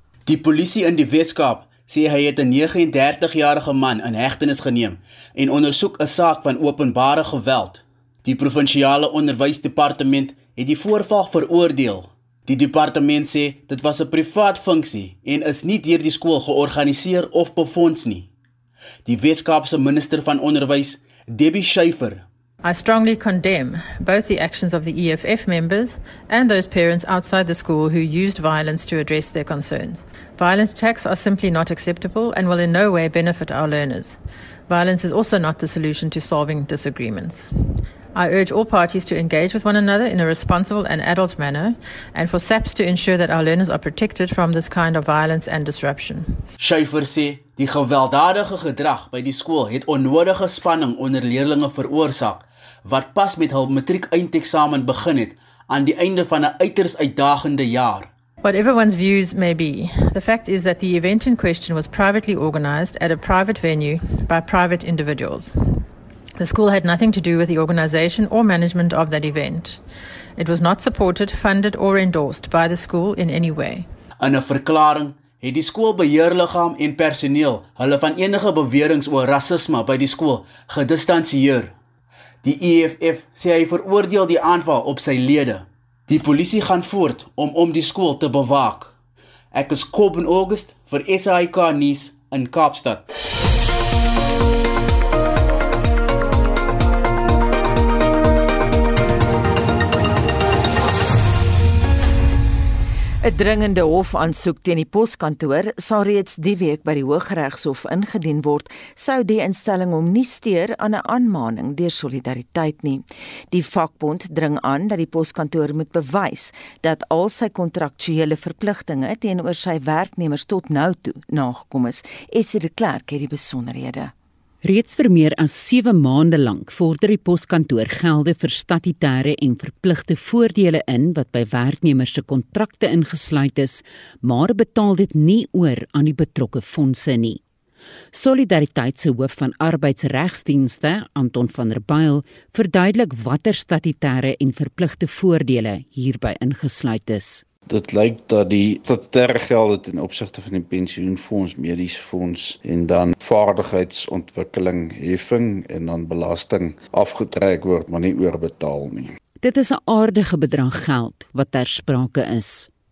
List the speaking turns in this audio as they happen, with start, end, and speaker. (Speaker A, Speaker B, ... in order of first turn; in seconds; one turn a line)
Speaker A: 0.2-18.3
Speaker A: 19.0-22.2
Speaker B: 22.6-37.5
Speaker B: 38.1-46.4
Speaker A: 46.6-58.1
Speaker B: 58.4-65.8
Speaker B: 66.4-69.8
Speaker B: 70.4-73.9
Speaker A: 74.2-81.7
Speaker A: 82.4-88.9
Speaker A: 89.5-93.0
Speaker C: 103.2-124.1
Speaker D: 124.6-137.4
Speaker D: 138.1-147.4
Speaker E: 147.7-159.1
Speaker D: 159.4-162.7